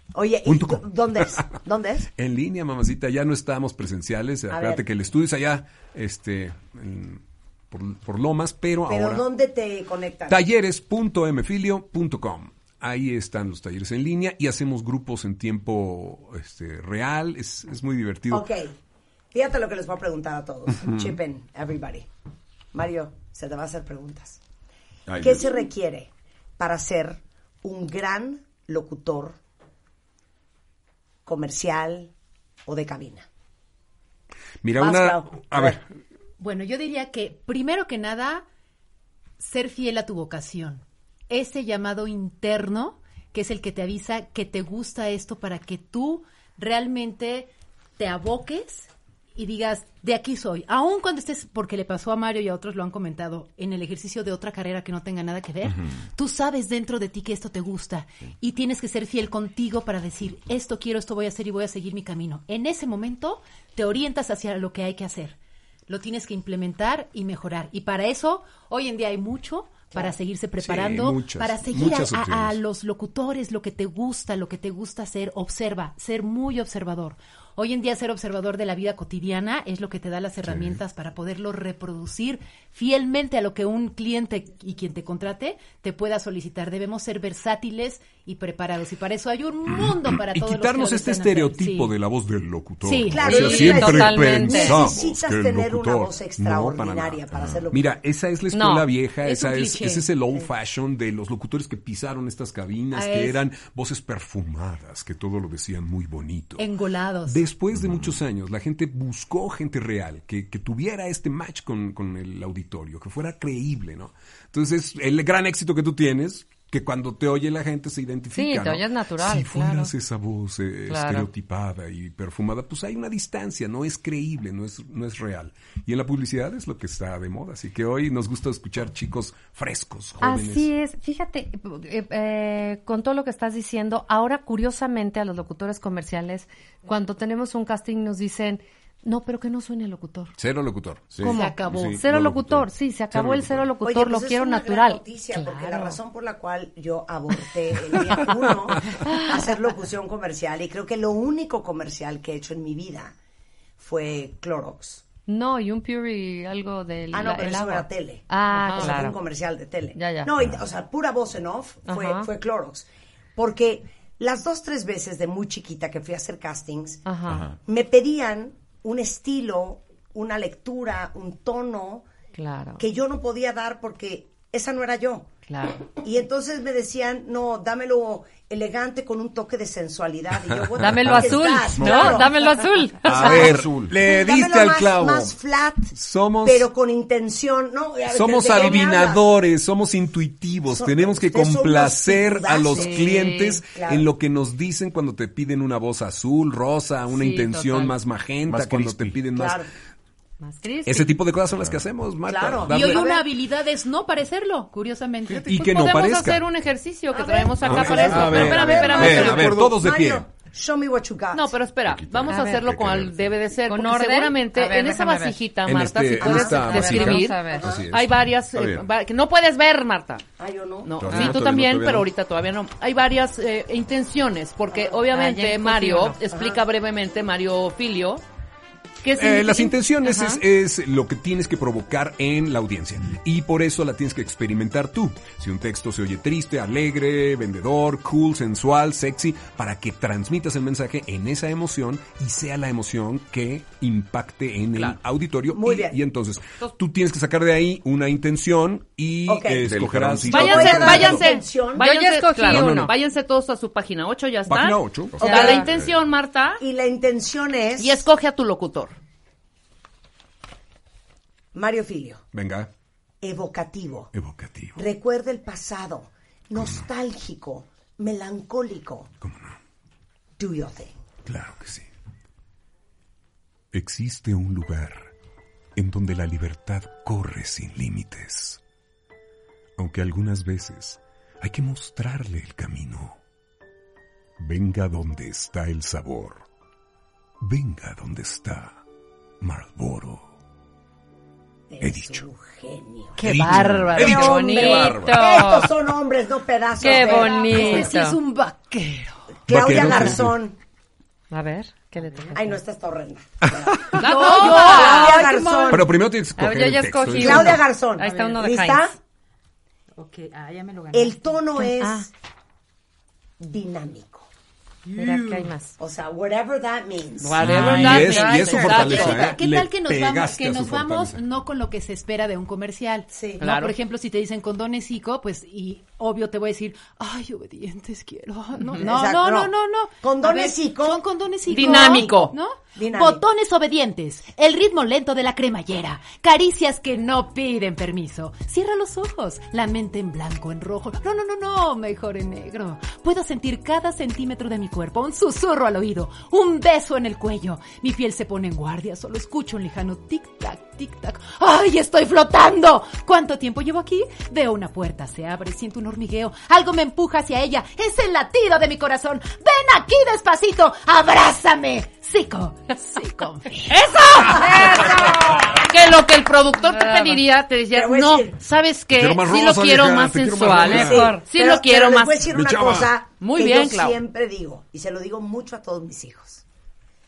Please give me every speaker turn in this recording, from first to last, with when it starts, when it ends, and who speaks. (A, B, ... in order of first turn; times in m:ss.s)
0:00.1-0:02.1 A
0:00.5-0:01.6 B
0:02.2-0:09.2 B
0:04.5-0:04.8 A
0:08.9-0:10.4 A
0:10.3-0:18.5 B
0:18.3-0:18.8 A
0:19.3-0:22.1 A
0:22.7-0:24.4 A
0:25.1-0:25.5 C
0:25.2-0:29.4 A
0:31.3-0:32.1 A
0:32.7-0:33.3 A
0:34.6-0:35.8 B
0:34.8-0:35.8 A
0:36.4-0:38.5 D
0:39.4-1:05.4 D
1:05.9-1:32.0 D
1:10.6-1:12.6 B
1:20.5-1:20.8 B
1:29.7-1:46.7 B
1:32.8-1:33.7 D
1:33.1-1:37.9 A
1:33.2-1:34.9 E
1:37.3-1:37.7 C
1:38.5-1:38.9 E
1:39.2-1:40.1 D
1:42.9-1:43.4 D
1:46.6-1:47.5 D
1:47.3-2:10.7 B
1:47.7-1:48.2 C
1:58.3-1:59.9 E
2:00.9-2:01.3 E
2:10.2-2:20.4 E
2:20.4-2:21.1 B
2:21.1-2:21.4 C
2:21.2-2:26.0 E
2:21.2-2:22.0 D
2:21.7-2:23.7 B
2:23.8-2:33.2 A
2:29.0-2:29.3 E
2:33.8-2:35.0 A
2:35.3-2:39.2 E
2:37.1-2:47.0 A
2:40.0-2:40.3 E
2:41.9-2:42.3 E
2:47.1-2:47.4 E
2:47.3-2:47.6 C
2:47.6-2:52.1 A
2:52.4-2:52.8 E
2:52.8-2:55.3 A
2:55.5-2:55.8 E
2:55.8-3:02.7 A
3:00.8-3:03.5 E
3:01.7-3:02.3 C
3:03.0-3:05.3 B
3:03.1-3:04.0 C
3:04.0-3:09.3 A
3:05.9-3:06.7 B
3:08.1-3:19.6 B
3:10.7-3:14.1 A
3:12.7-3:13.6 E
3:17.1-3:18.0 E
3:18.4-3:19.2 C
3:19.4-3:19.7 A
3:20.4-3:21.1 E
3:20.8-3:23.1 B
3:21.5-3:21.9 C
3:22.2-3:23.3 A
3:22.6-3:25.8 D
3:25.3-3:25.5 C
3:25.5-3:26.4 B
3:25.5-3:29.6 F
3:27.1-3:31.6 A
3:27.6-3:30.2 B
3:27.7-3:29.8 C
3:31.3-3:40.2 F
3:31.9-3:33.4 C
3:32.3-3:32.6 E
3:33.7-3:35.4 E
3:35.6-3:38.1 B
3:36.2-3:37.7 E
3:36.2-3:36.6 A
3:37.5-3:37.9 A
3:38.5-3:38.9 C
3:40.4-3:41.0 A
3:40.8-3:48.2 F
3:41.0-3:42.0 C
3:41.1-3:42.0 B
3:45.1-3:46.2 E
3:46.3-3:46.6 A
3:49.0-3:49.7 F
3:49.2-4:11.2 B
3:50.0-3:50.4 E
4:05.5-4:06.0 A
4:09.3-4:09.7 A
4:09.6-4:11.2 C
4:10.3-4:16.6 F
4:10.3-4:11.9 A
4:11.8-4:12.9 E
4:12.4-4:12.9 B
4:14.5-4:15.3 B
4:15.2-4:16.0 C
4:15.2-4:15.7 E
4:15.2-4:15.6 A
4:16.6-4:18.1 A
4:17.8-4:19.0 F
4:21.5-4:22.2 A
4:22.3-4:22.7 B
4:23.2-4:24.1 A
4:24.1-4:24.8 B
4:24.8-4:29.1 A
4:29.2-4:29.6 B
4:30.4-4:31.0 A
4:31.3-4:31.9 B
4:33.7-4:35.1 B
4:35.8-4:38.6 B
4:39.8-4:43.2 B
4:44.4-4:46.4 B
4:47.4-4:48.8 B
4:49.4-4:50.3 B
4:51.7-4:53.2 A
4:51.8-4:52.2 B
4:53.2-4:55.7 E
4:53.2-4:54.9 B
4:54.0-4:57.9 A
4:54.1-4:55.1 C
4:56.8-4:58.2 E
4:56.9-4:59.4 D
4:59.5-5:00.6 A
4:59.5-5:00.4 B
5:01.3-5:02.5 E
5:02.1-5:02.4 D
5:02.3-5:05.9 A
5:03.4-5:04.0 B
5:04.0-5:05.2 F
5:04.0-5:05.8 D
5:04.4-5:04.9 E
5:05.7-5:07.6 B
5:06.4-5:09.0 E
5:07.2-5:09.0 A
5:08.0-5:08.3 D
5:10.0-5:11.4 D
5:10.9-5:12.1 A
5:11.6-5:12.1 E
5:13.4-5:14.3 A
5:14.9-5:15.5 D
5:15.0-5:15.8 E
5:15.8-5:17.7 A
5:17.2-5:19.3 F
5:17.4-5:21.2 B
5:17.4-5:18.4 E
5:18.4-5:19.4 A
5:18.8-6:03.8 D
5:23.1-5:23.4 A
5:23.4-5:23.8 F
5:28.8-5:32.2 A
5:31.5-5:32.4 F
5:32.8-5:33.2 A
6:03.7-6:12.3 F
6:04.4-6:05.4 A
6:06.6-6:07.2 E
6:07.7-6:08.4 A
6:08.9-6:11.2 B
6:10.6-6:11.2 E
6:10.6-6:16.4 A
6:12.3-6:12.9 B
6:13.2-6:14.0 F